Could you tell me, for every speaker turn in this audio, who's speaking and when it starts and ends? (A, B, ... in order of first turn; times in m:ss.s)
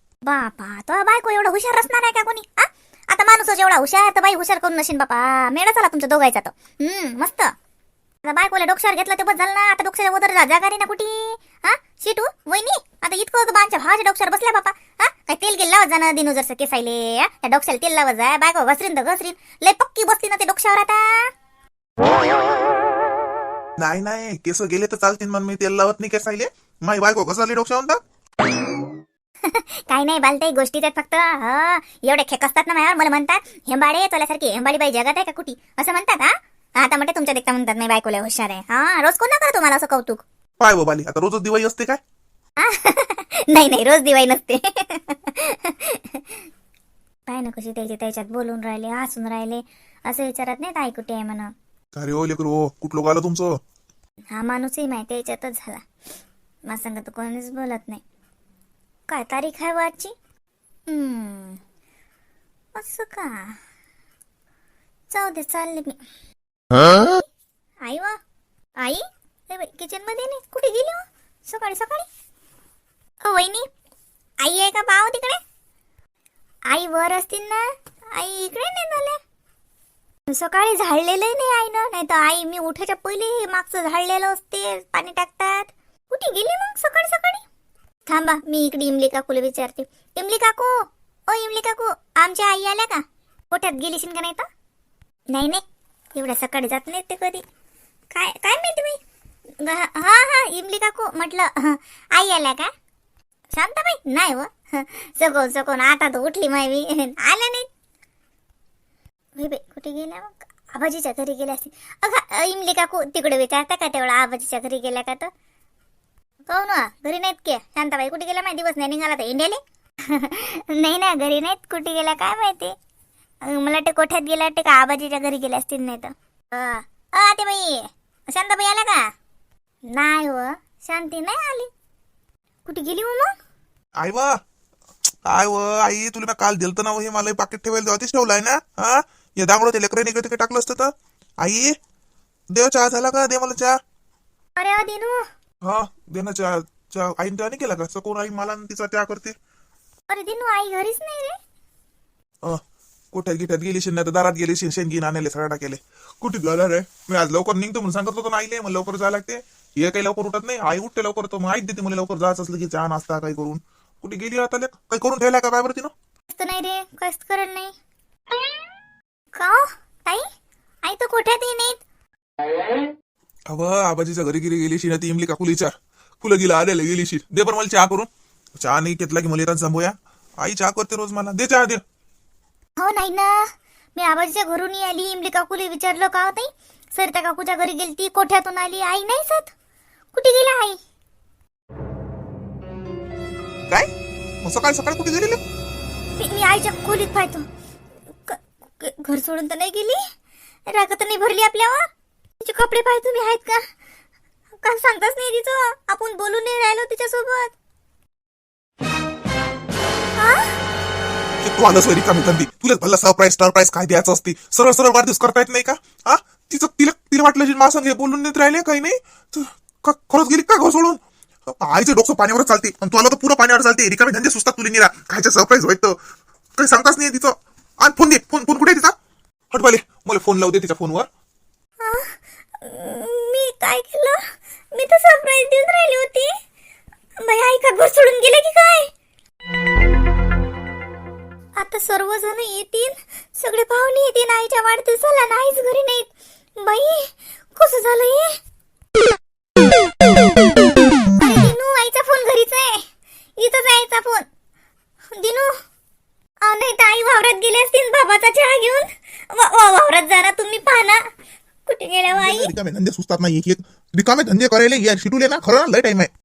0:00.2-0:07.5 A
0:08.2-0:21.3 A
0:23.8-0:28.0 B
0:29.4-0:40.2 A
0:40.6-0:42.0 B
0:42.6-0:46.4 A
0:47.3-0:51.5 A
0:52.0-0:53.6 B
0:54.3-0:55.8 A
0:56.7-0:58.0 A
0:59.1-1:00.1 A
1:00.9-1:01.6 A
1:02.8-1:03.6 A
1:05.1-1:06.0 A
1:06.9-1:07.2 A
1:07.8-1:08.2 A
1:08.8-1:12.1 A
1:13.2-1:13.7 A
1:14.4-1:15.4 A
1:16.7-1:19.2 A
1:20.3-1:27.4 A
1:28.1-1:34.5 A
1:35.3-1:35.6 A
1:36.2-1:37.4 A
1:38.1-1:39.0 A
1:39.6-1:42.7 A
1:43.5-1:47.7 A
1:49.4-1:55.3 A
1:56.5-2:02.8 A
2:03.4-2:09.0 A
2:09.9-2:11.7 A
2:12.7-2:13.3 A
2:14.0-2:14.3 B
2:15.2-2:21.8 B
2:22.5-2:23.8 B
2:24.6-2:25.2 A
2:25.6-2:29.4 B
2:30.1-2:31.4 A
2:33.1-2:45.9 B
2:46.3-2:47.8 A
2:49.4-2:50.2 A
2:50.8-2:51.8 A
2:53.5-3:01.8 B
3:02.8-3:09.5 A
3:10.1-3:10.8 A
3:14.4-3:15.4 B
3:16.2-3:17.5 A
3:18.2-3:20.0 A
3:20.7-3:21.9 A
3:22.4-3:23.7 A
3:24.6-3:27.5 A
3:30.2-3:30.6 A
3:31.4-3:46.0 B
3:46.6-3:48.9 B
3:49.5-3:51.1 B
3:51.8-3:54.2 A
3:54.7-3:56.3 A
3:57.2-3:58.9 A
4:01.6-4:08.4 A
4:11.2-4:12.8 A
4:13.4-4:14.3 A
4:15.1-4:15.5 A
4:16.4-4:21.0 A
4:21.7-4:22.5 A
4:22.1-4:26.1 B